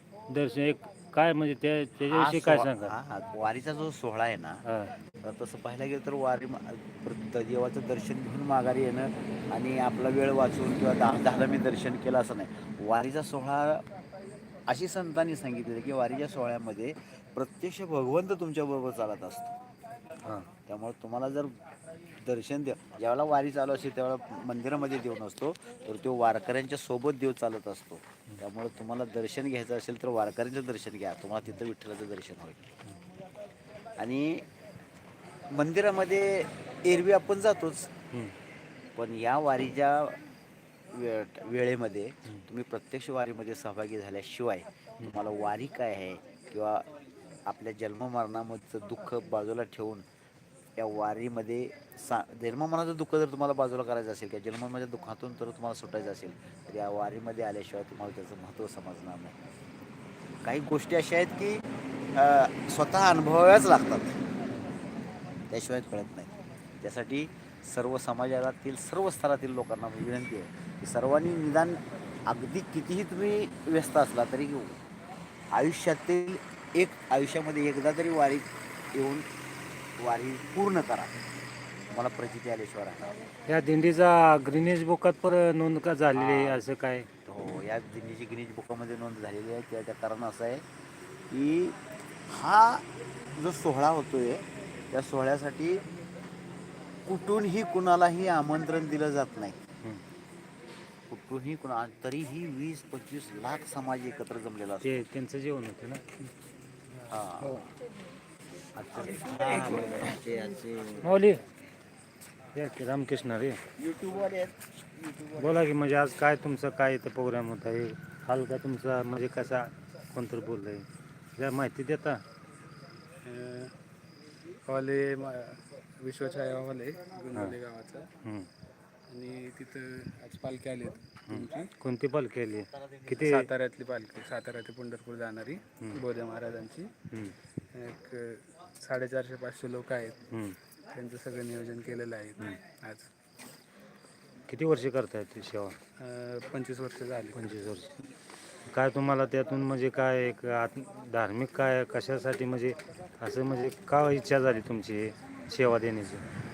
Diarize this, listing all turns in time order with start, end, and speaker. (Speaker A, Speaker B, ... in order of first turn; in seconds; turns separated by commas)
Speaker A: 0.3-2.9, Speaker B: 2.1-4.6, Speaker A: 4.7-4.9, Speaker B: 5.2-13.8, Speaker B: 14.7-19.5, Speaker B: 20.7-21.5, Speaker B: 22.2-32.6, Speaker B: 34.0-34.5, Speaker B: 35.5-37.9, Speaker B: 39.0-40.2, Speaker B: 40.9-46.9, Speaker B: 47.5-50.0, Speaker B: 50.8-59.4, Speaker B: 60.4-61.6, Speaker B: 62.1-64.2, Speaker B: 65.5-66.3, Speaker B: 66.8-74.8, Speaker B: 75.5-79.3, Speaker B: 80.0-81.1, Speaker B: 81.9-83.2, Speaker A: 83.5-87.1, Speaker B: 86.1-86.6, Speaker B: 87.3-90.7, Speaker B: 91.3-95.8, Speaker B: 97.0-99.6, Speaker B: 101.1-105.1, Speaker A: 104.8-106.0, Speaker B: 107.1-107.6, Speaker B: 108.8-111.1, Speaker A: 111.0-111.4, Speaker A: 112.5-113.6, Speaker B: 113.8-114.5, Speaker B: 115.0-115.5, Speaker A: 115.4-120.9, Speaker A: 121.4-122.2, Speaker C: 123.2-123.7, Speaker C: 124.7-128.1, Speaker C: 129.1-131.7, Speaker A: 131.3-133.5, Speaker C: 133.2-136.9, Speaker C: 137.7-140.2, Speaker C: 140.9-143.1, Speaker A: 144.5-145.8, Speaker C: 146.0-147.6, Speaker A: 147.3-147.9, Speaker A: 148.7-156.2